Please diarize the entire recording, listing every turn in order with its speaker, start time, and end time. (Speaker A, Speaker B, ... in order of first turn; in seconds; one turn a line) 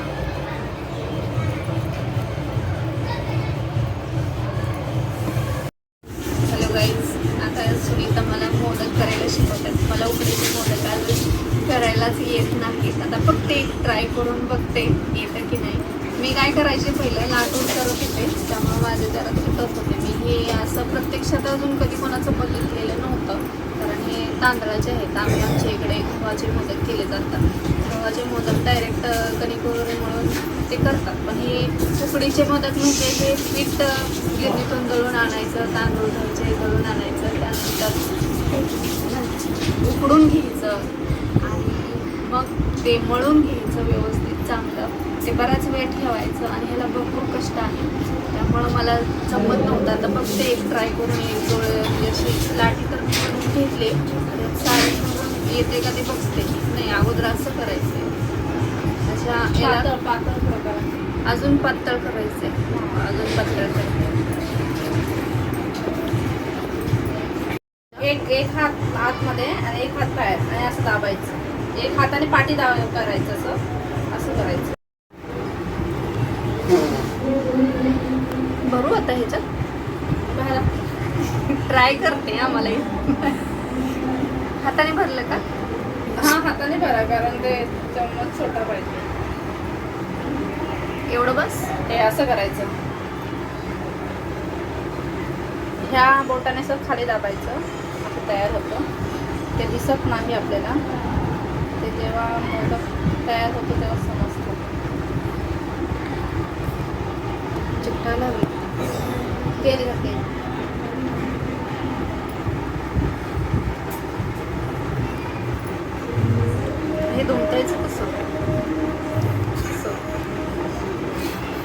Speaker A: 6.5-38.0
Speaker A: 38.8-40.9
Speaker A: 41.4-58.1
Speaker A: 59.0-59.9
Speaker B: 59.6-60.9
Speaker A: 61.3-64.2
Speaker B: 62.7-63.0
Speaker B: 68.0-73.6
Speaker B: 74.1-74.8
Speaker A: 78.7-79.5
Speaker B: 80.3-80.7
Speaker A: 81.6-83.4
Speaker A: 84.6-85.4
Speaker B: 86.2-89.1
Speaker A: 91.1-91.7
Speaker B: 91.9-92.7
Speaker B: 95.9-98.8
Speaker B: 99.6-100.8
Speaker B: 101.8-104.6
Speaker A: 107.8-108.5
Speaker B: 109.6-110.2
Speaker A: 117.1-118.2
Speaker A: 119.6-120.0